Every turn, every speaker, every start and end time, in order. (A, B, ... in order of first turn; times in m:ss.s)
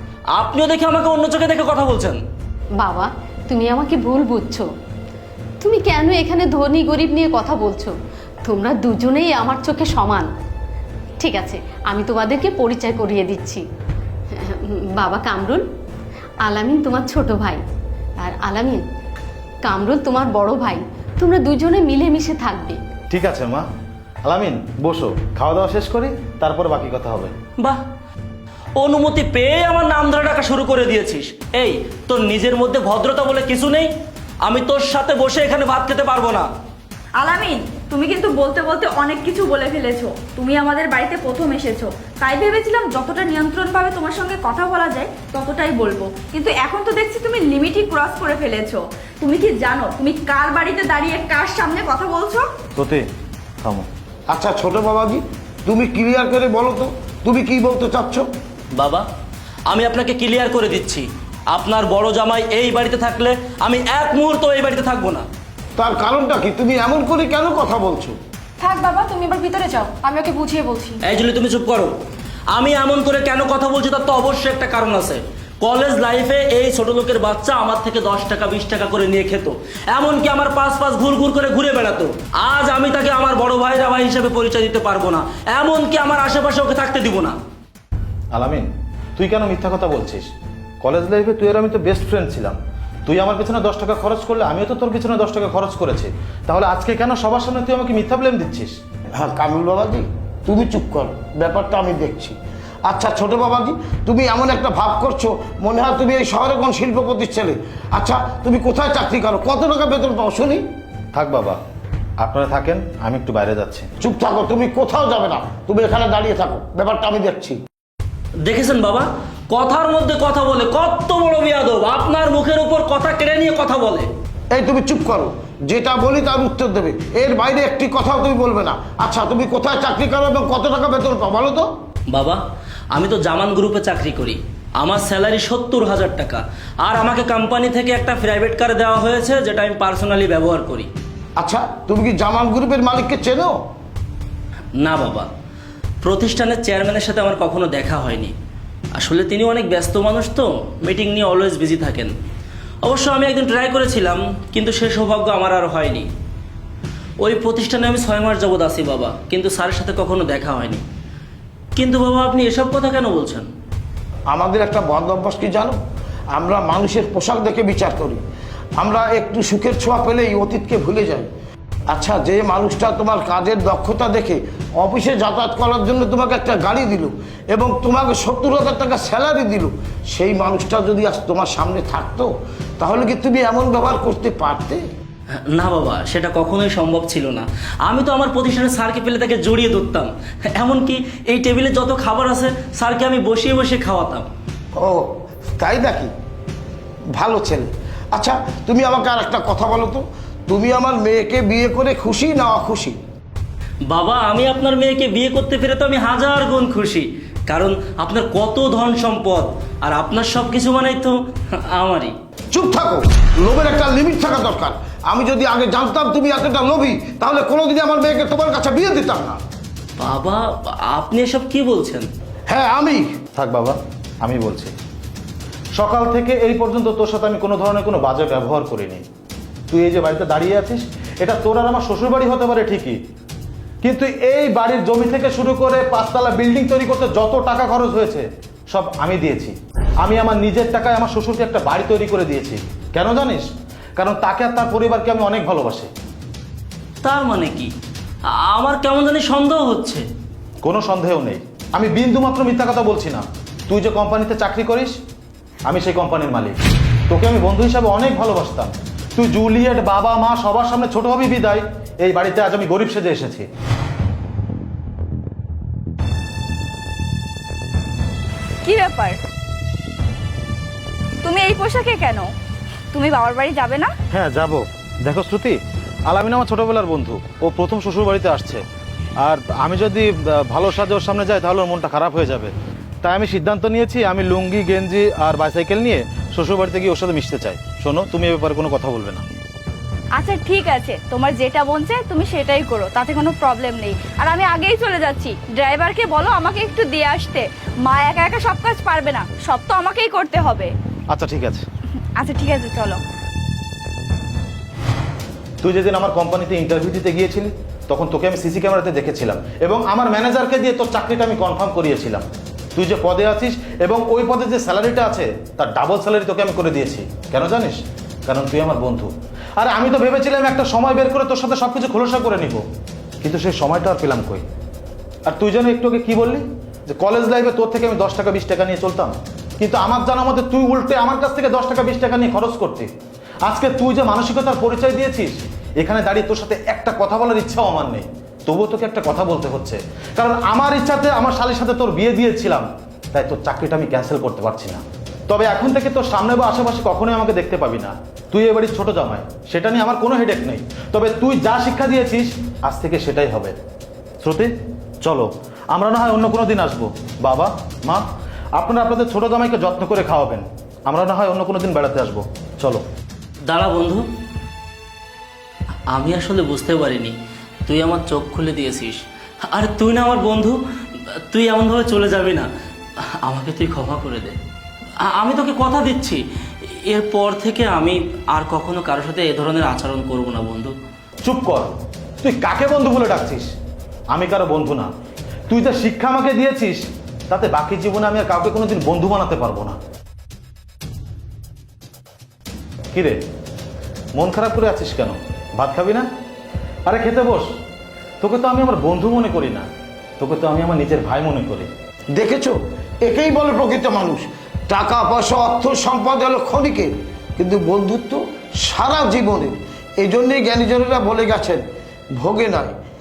0:00.4-0:02.2 A
0:02.8-0:04.7 B
0:05.6-0:07.9 B
0:08.4-0:10.3 B
0:11.2-0:13.6 B
0:14.3-0:15.6 B
0:16.4-0:17.6 B
0:18.2-0:18.8 B
0:19.6-0:22.8 B
0:23.1-0:23.6 C
0:24.2-0:27.3 C
0:28.8-0:33.9 A
0:34.4-0:36.5 A
0:37.2-0:52.5 D
0:52.8-0:53.1 C
0:54.3-0:58.2 E
0:58.8-0:59.1 A
0:59.7-1:05.2 A
1:05.8-1:08.2 E
1:08.6-1:11.0 D
1:11.0-1:12.0 A
1:12.5-1:27.4 A
1:28.3-1:30.3 C
1:30.8-1:38.8 C
1:39.1-1:50.6 E
1:51.1-1:51.6 C
1:52.2-1:53.9 C
1:54.0-1:57.6 E
1:58.4-2:04.1 A
2:04.5-2:11.7 E
2:12.1-2:12.4 A
2:12.9-2:20.9 A
2:21.4-2:23.5 E
2:24.8-2:25.3 A
2:26.0-2:28.3 A
2:29.0-2:32.1 A
2:32.8-2:36.1 A
2:37.2-2:40.8 A
2:41.8-2:43.5 A
2:44.3-2:45.8 E
2:46.4-2:48.2 E
2:48.8-2:51.3 E
2:51.9-3:04.8 E
3:05.4-3:14.3 A
3:14.8-3:15.1 E
3:15.6-3:16.1 E
3:17.1-3:23.0 E
3:23.9-3:32.1 A
3:32.5-3:39.4 E
3:40.0-3:42.1 A
3:42.5-3:43.2 E
3:43.3-3:44.7 C
3:45.8-3:49.0 C
3:49.7-3:53.0 C
3:53.8-4:05.9 C
4:07.0-4:07.7 A
4:08.3-4:10.1 A
4:10.6-4:15.0 C
4:15.6-4:23.5 C
4:28.6-4:29.2 D
4:31.2-4:32.3 D
4:32.9-4:33.9 D
4:34.1-4:35.6 C
4:36.1-4:38.6 C
4:39.2-4:49.2 C
4:50.1-5:00.7 D
5:01.1-5:01.6 C
5:02.2-5:03.0 D
5:05.6-5:12.2 C
5:12.8-5:22.6 C
5:23.2-5:24.4 C
5:25.3-5:32.9 C
5:33.4-5:53.5 C
5:54.2-5:54.5 C
5:55.0-6:02.8 C
6:03.5-6:04.1 A
6:05.9-6:12.5 A
6:13.1-6:14.4 A
6:15.0-6:20.7 A
6:21.2-6:21.7 C
6:22.2-6:23.5 C
6:24.1-6:24.9 C
6:25.5-6:29.8 C
6:32.9-6:33.2 C
6:34.1-6:36.1 C
6:36.9-6:37.5 C
6:38.2-6:39.6 C
6:40.2-6:41.7 C
6:42.1-6:51.6 E
6:52.2-6:52.7 E